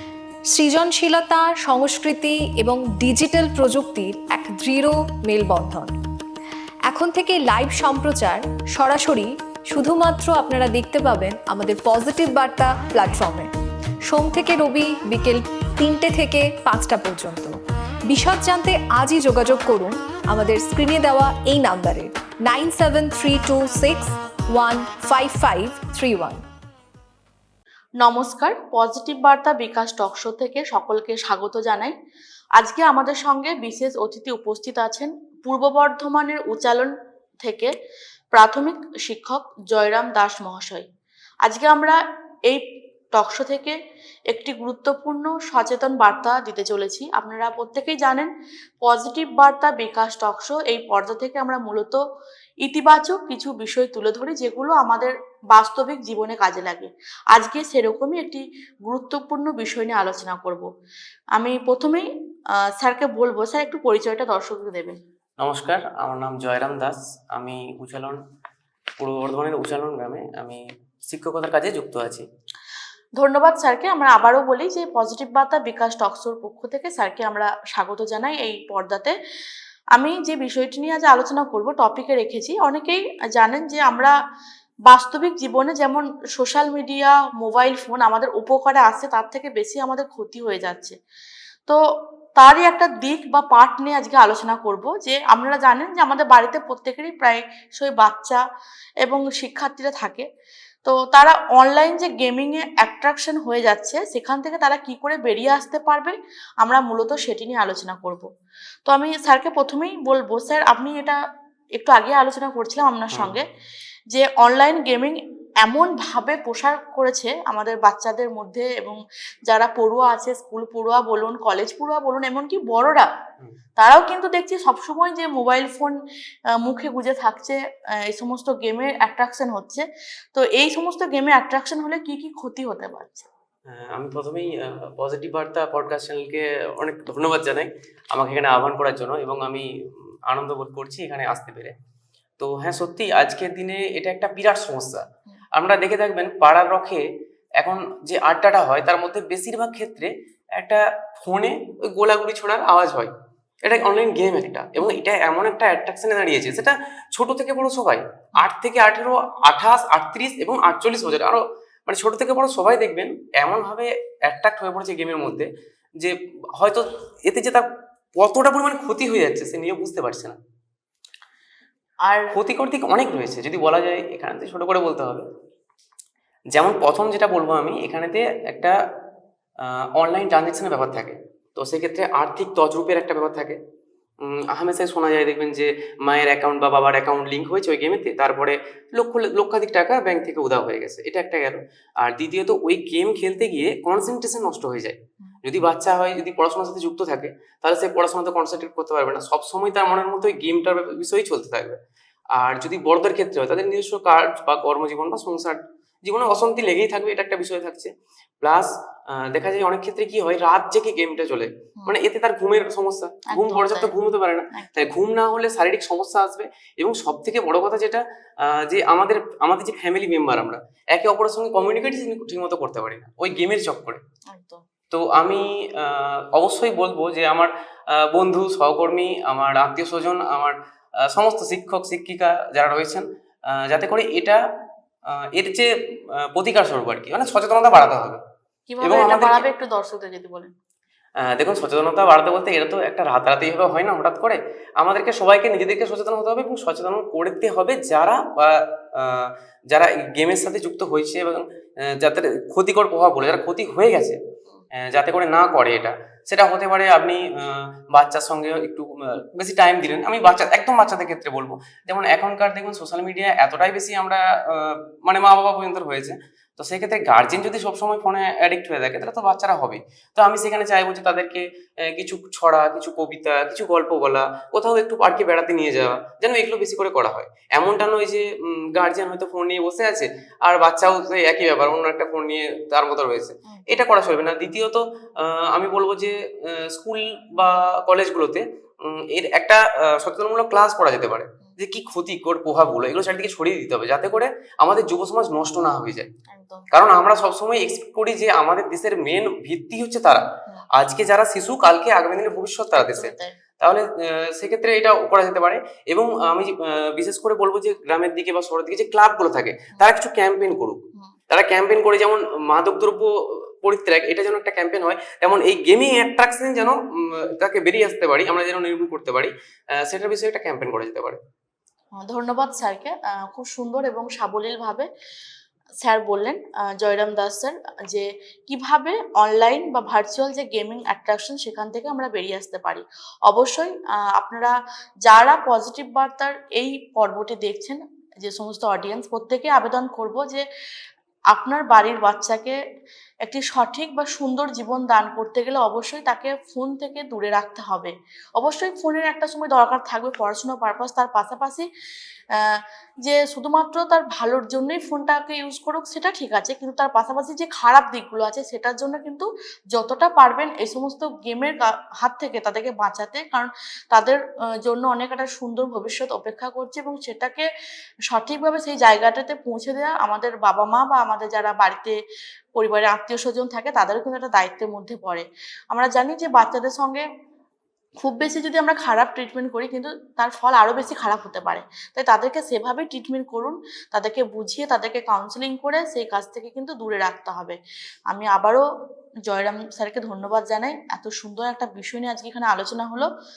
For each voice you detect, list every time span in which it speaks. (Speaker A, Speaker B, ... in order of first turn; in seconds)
Speaker A: 0.5-5.9, 6.9-13.5, 14.0-17.5, 18.1-26.4
Speaker B: 28.0-31.9, 32.6-36.9, 37.4-37.7, 38.3-40.9, 41.4-42.0, 43.1-43.7, 44.3-48.3, 48.8-52.0, 52.6-60.6, 61.4-62.1, 62.8-65.0, 73.2-79.1, 79.9-84.1, 84.9-91.0, 92.4-98.4, 99.0-100.2, 100.8-108.3, 108.9-111.2, 111.8-113.4, 114.1-123.1, 123.8-126.0, 126.6-127.6, 128.1-133.3, 172.0-172.3, 213.3-213.9, 214.5-214.9, 224.3-224.6, 238.7-240.5, 296.3-296.7, 302.7-303.4, 322.0-324.9, 325.8-334.5, 335.0-340.4, 341.3-342.6, 343.2-351.6, 352.4-367.4, 368.1-371.9, 372.5-377.0, 378.0-387.6, 388.1-388.6, 389.3-393.1
Speaker C: 65.4-68.2, 69.0-72.3, 133.7-141.7, 142.4-147.0, 147.6-170.4, 172.3-175.2, 176.5-178.8, 179.6-183.6, 184.2-201.8, 202.3-224.0, 224.9-234.4, 235.1-238.2, 238.8-239.4, 241.2-254.2, 254.7-296.1, 296.7-310.8, 311.3-321.2